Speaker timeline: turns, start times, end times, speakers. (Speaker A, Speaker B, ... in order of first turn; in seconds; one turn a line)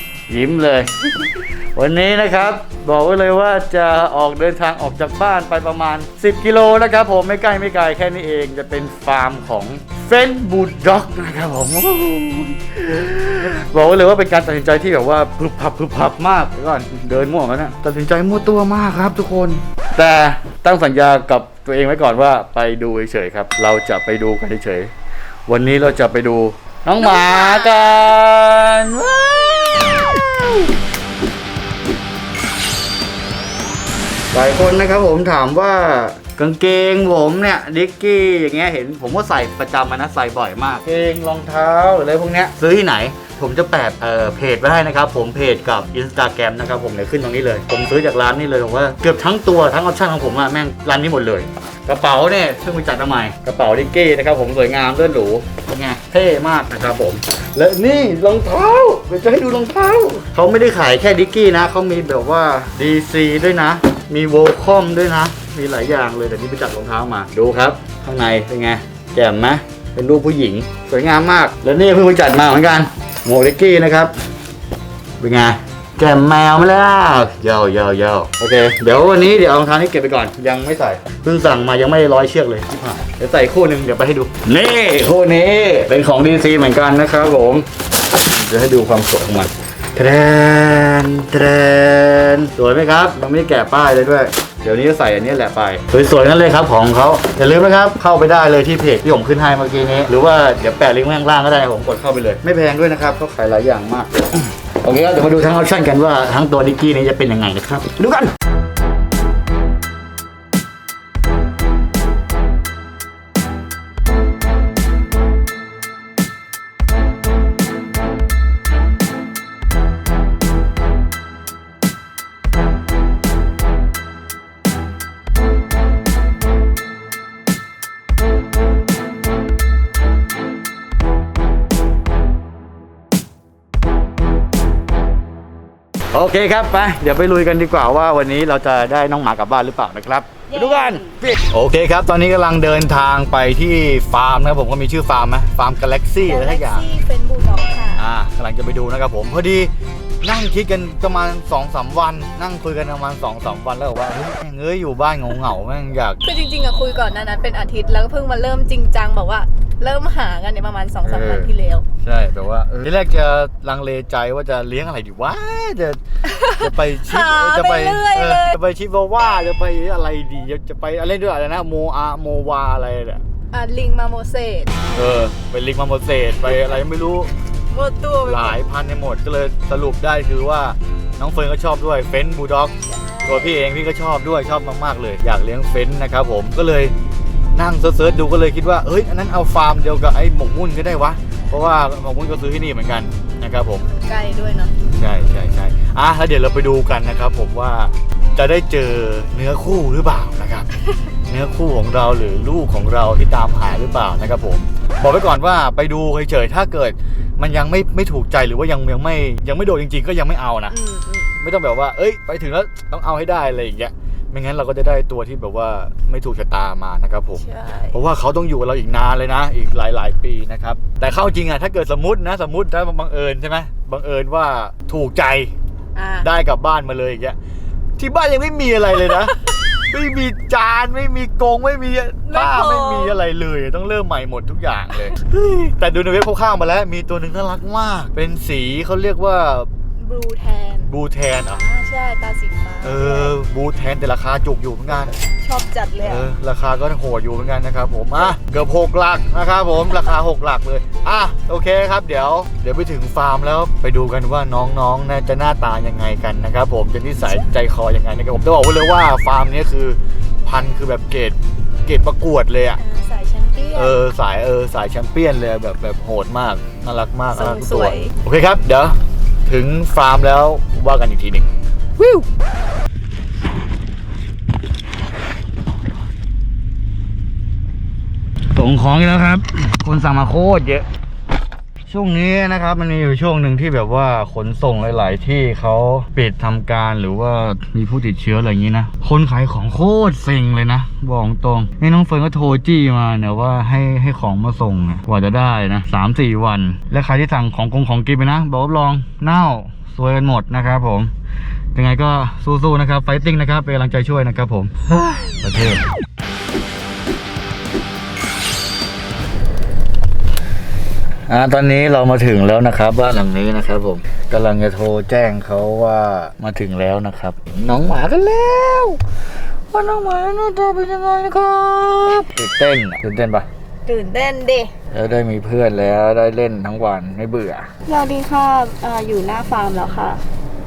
Speaker A: 0.3-0.9
Speaker A: 1.7-24.9
Speaker A: 25.5-30.7
Speaker B: 27.1-27.8
Speaker A: 34.3-74.1
Speaker A: 75.2-87.7
Speaker A: 88.3-108.3
Speaker A: 136.1-146.8
Speaker B: 140.5-141.2
Speaker B: 146.2-148.0
Speaker A: 147.9-149.7
Speaker A: 150.2-156.2
Speaker B: 156.2-161.8
Speaker A: 161.0-161.5
Speaker A: 162.0-166.0
Speaker B: 166.2-168.5
Speaker A: 166.6-173.2
Speaker B: 173.5-174.9
Speaker A: 174.9-177.3
Speaker B: 177.7-178.6
Speaker A: 178.2-182.7
Speaker B: 182.8-183.6
Speaker A: 183.2-186.9
Speaker A: 187.5-193.8
Speaker B: 193.8-194.7
Speaker A: 194.9-200.7
Speaker A: 201.2-210.7
Speaker B: 210.7-211.3
Speaker A: 211.4-225.5
Speaker B: 217.4-218.0
Speaker B: 225.9-226.3
Speaker A: 226.2-227.3
Speaker A: 228.0-229.4
Speaker A: 229.9-239.7
Speaker B: 232.3-233.2
Speaker B: 240.0-243.3
Speaker A: 240.8-241.6
Speaker A: 242.8-245.1
Speaker B: 244.9-246.3
Speaker A: 246.0-262.8
Speaker B: 262.8-264.0
Speaker A: 263.7-268.9
Speaker B: 267.3-268.1
Speaker A: 269.5-271.4
Speaker B: 272.0-272.2
Speaker A: 278.5-280.9
Speaker A: 281.9-301.1
Speaker A: 301.7-305.8
Speaker A: 311.3-319.0
Speaker A: 319.7-323.4
Speaker B: 323.9-324.7
Speaker A: 324.9-327.7
Speaker B: 327.9-330.2